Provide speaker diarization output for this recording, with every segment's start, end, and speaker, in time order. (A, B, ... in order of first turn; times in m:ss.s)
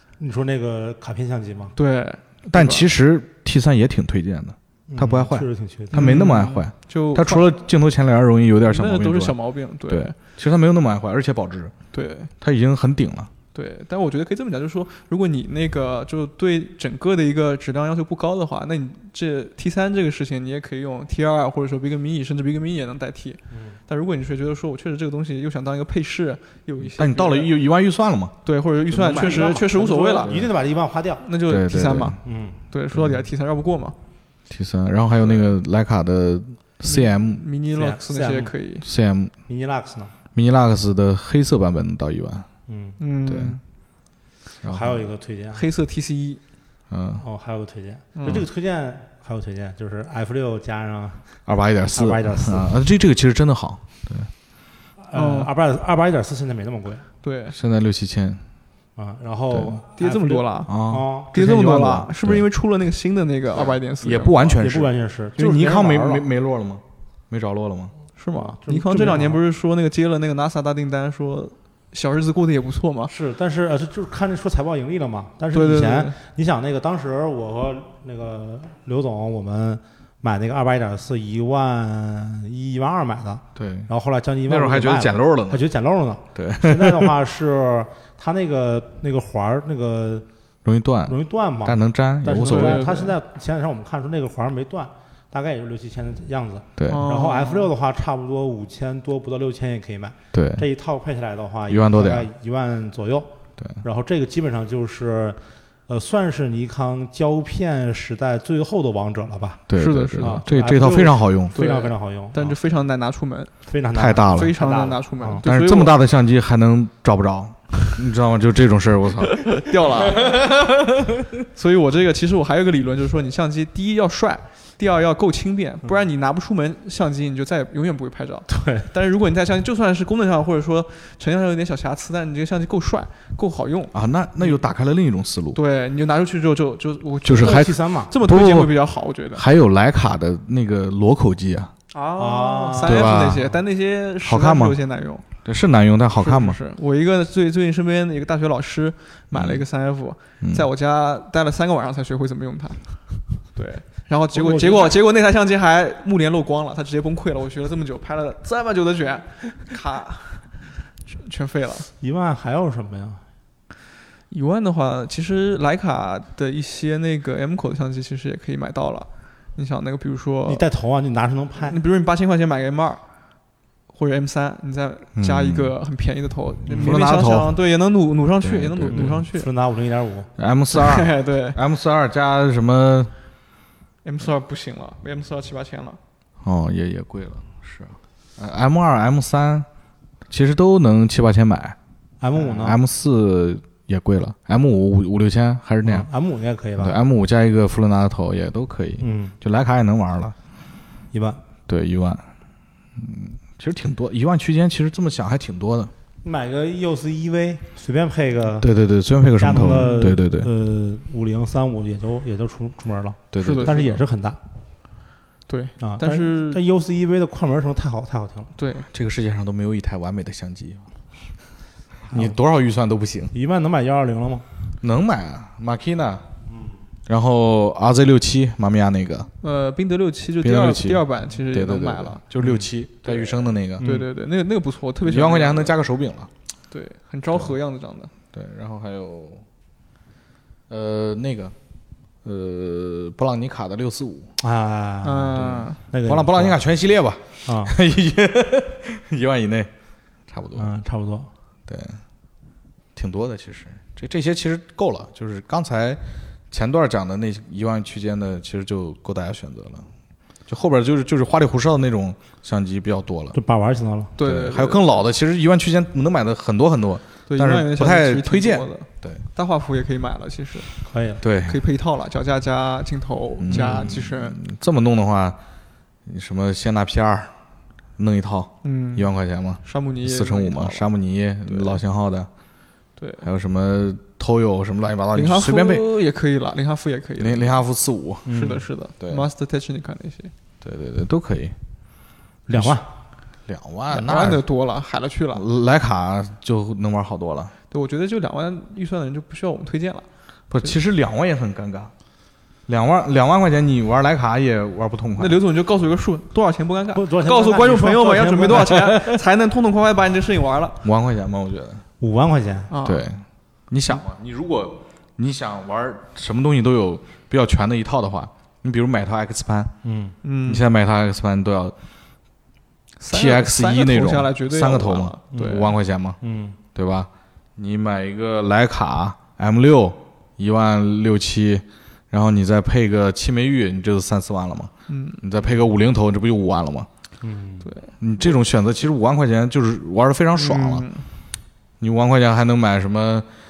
0:00.2-0:01.8 A
0:01.8-0:02.9 B
0:02.5-0:09.4 C
0:04.9-0:06.0 A
0:05.9-0:07.5 B
0:08.7-0:10.2 B
0:09.9-0:11.7 C
0:11.9-0:12.3 B
0:12.4-0:13.3 C
0:13.5-0:27.5 B
0:26.9-0:28.4 C
0:28.4-0:30.4 B
0:28.9-0:31.2 A
0:29.1-0:29.6 C
0:31.2-0:32.2 B
0:31.5-0:32.2 C
0:32.2-0:32.6 A
0:32.7-0:34.0 B
0:32.9-0:33.2 C
0:34.5-0:37.4 C
0:36.9-0:38.9 B
0:37.7-0:38.5 A
0:38.8-0:39.3 C
0:39.5-0:40.1 A
0:40.3-0:42.5 C
0:42.7-0:43.0 A
0:43.0-0:43.6 B
0:43.3-0:43.6 C
0:44.6-0:45.0 C
0:44.7-0:45.6 A
0:45.6-0:46.4 B
0:46.9-0:47.2 C
0:47.2-0:51.3 A
0:48.2-0:48.4 B
0:51.5-0:54.3 C
0:51.9-0:52.8 A
0:55.0-0:57.1 A
0:55.1-0:55.5 B
0:57.2-0:57.6 B
0:57.5-0:58.4 C
0:59.0-1:01.4 A
0:59.5-0:59.8 C
1:00.0-1:00.7 B
1:00.7-1:02.4 C
1:01.3-1:04.5 B
1:03.6-1:07.9 C
1:04.6-1:06.3 A
1:08.2-1:13.1 B
1:08.3-1:09.4 A
1:13.1-1:30.3 A
1:15.5-1:16.2 B
1:23.6-1:23.9 C
1:24.5-1:25.6 C
1:26.4-1:27.1 C
1:30.6-1:33.0 C
1:31.1-1:43.3 A
1:32.4-1:33.1 B
1:36.8-1:37.0 C
1:36.9-1:37.7 B
1:40.3-1:40.7 C
1:41.7-1:42.3 C
1:43.8-1:49.6 A
1:49.7-1:51.6 C
1:49.8-1:50.4 B
1:50.2-1:52.5 A
1:51.6-1:53.5 B
1:53.7-1:55.4 A
1:53.9-1:54.6 C
1:54.2-1:56.0 B
1:55.4-1:59.6 C
1:59.3-2:00.7 B
2:01.5-2:14.6 B
2:08.5-2:08.9 A
2:13.9-2:15.6 C
2:15.5-2:19.4 B
2:17.3-2:18.7 C
2:17.4-2:18.1 A
2:19.4-2:21.7 C
2:21.9-2:25.2 B
2:22.2-2:23.1 A
2:22.8-2:23.5 C
2:24.2-2:24.8 C
2:25.4-2:26.6 C
2:26.2-2:41.9 B
2:29.3-2:29.6 C
2:30.4-2:30.7 C
2:34.3-2:35.0 A
2:42.0-2:43.2 A
2:44.3-2:50.6 B
2:50.5-2:51.8 A
2:51.6-2:53.0 B
2:53.9-2:59.5 B
2:55.2-2:55.8 C
2:56.7-2:57.0 A
2:56.7-2:57.6 C
2:58.4-2:59.2 C
2:58.9-3:00.3 A
3:00.4-3:03.1 C
3:00.7-3:01.6 B
3:04.0-3:06.0 B
3:06.4-3:09.7 C
3:10.3-3:11.8 C
3:12.2-3:12.8 A
3:12.3-3:16.1 C
3:15.8-3:17.0 A
3:16.8-3:20.3 C
3:19.0-3:19.4 A
3:21.1-3:21.4 A
3:21.7-3:22.2 C
3:23.0-3:25.9 C
3:26.2-3:28.7 A
3:28.6-3:30.5 C
3:29.4-3:34.4 A
3:33.3-3:33.9 C
3:33.4-3:34.0 B
3:35.5-3:36.6 B
3:35.8-3:38.5 A
3:38.6-3:38.9 B
3:38.9-3:40.9 C
3:42.1-3:43.3 C
3:42.1-3:42.4 A
3:43.3-3:44.5 A
3:44.8-3:46.2 C
3:47.1-3:49.3 C
3:49.4-3:52.2 B
3:50.4-3:53.8 C
3:52.4-3:52.7 A
3:53.0-3:55.8 B
3:53.8-3:54.1 A
3:55.0-3:56.3 C
3:56.7-3:58.1 B
3:58.3-3:59.4 C
4:00.7-4:01.5 C
4:02.2-4:04.3 C
4:04.4-4:06.6 A
4:05.0-4:05.8 B
4:05.4-4:09.7 C
4:07.4-4:07.8 A
4:10.3-4:10.7 C
4:10.6-4:11.3 A
4:11.7-4:12.0 C
4:13.0-4:16.0 C
4:16.5-4:19.9 C
4:20.5-4:23.4 C
4:23.3-4:24.1 A
4:24.2-4:24.9 B
4:24.2-4:29.2 C
4:27.3-4:30.7 B
4:30.8-4:31.2 A
4:31.2-4:31.6 C
4:31.4-4:34.4 B
4:33.4-4:35.4 C
4:33.5-4:33.9 A
4:36.1-4:37.3 C
4:38.0-4:42.3 C
4:38.6-4:39.1 B
4:39.6-4:40.9 B
4:41.5-4:41.8 B
4:43.0-4:43.2 B
4:43.2-4:45.9 C
4:45.1-4:47.6 B
4:47.2-4:48.3 C
4:48.3-4:48.6 A
4:48.3-4:50.3 B
4:49.0-4:49.3 C
4:50.6-4:51.6 C
4:52.5-4:52.9 A
4:52.5-4:52.8 C
4:53.5-4:54.4 C
4:53.9-4:55.4 B
4:55.3-4:57.5 C
4:57.7-5:00.1 B
5:00.5-5:01.9 C
5:02.7-5:05.4 C
5:05.2-5:10.8 B
5:06.9-5:08.9 A
5:10.8-5:11.8 C
5:12.0-5:12.7 A
5:12.7-5:13.1 B
5:12.8-5:19.7 C
5:19.8-5:20.2 A
5:20.2-5:20.7 B
5:20.5-5:21.8 C
5:23.0-5:25.8 B
5:23.1-5:26.2 C
5:25.3-5:25.7 A
5:26.2-5:26.6 A
5:26.8-5:34.7 C
5:34.9-5:35.2 B
5:35.2-5:36.9 C
5:37.2-5:37.7 A
5:37.6-5:37.9 B
5:38.0-5:40.8 C
5:40.4-5:41.0 B
5:41.8-5:43.3 C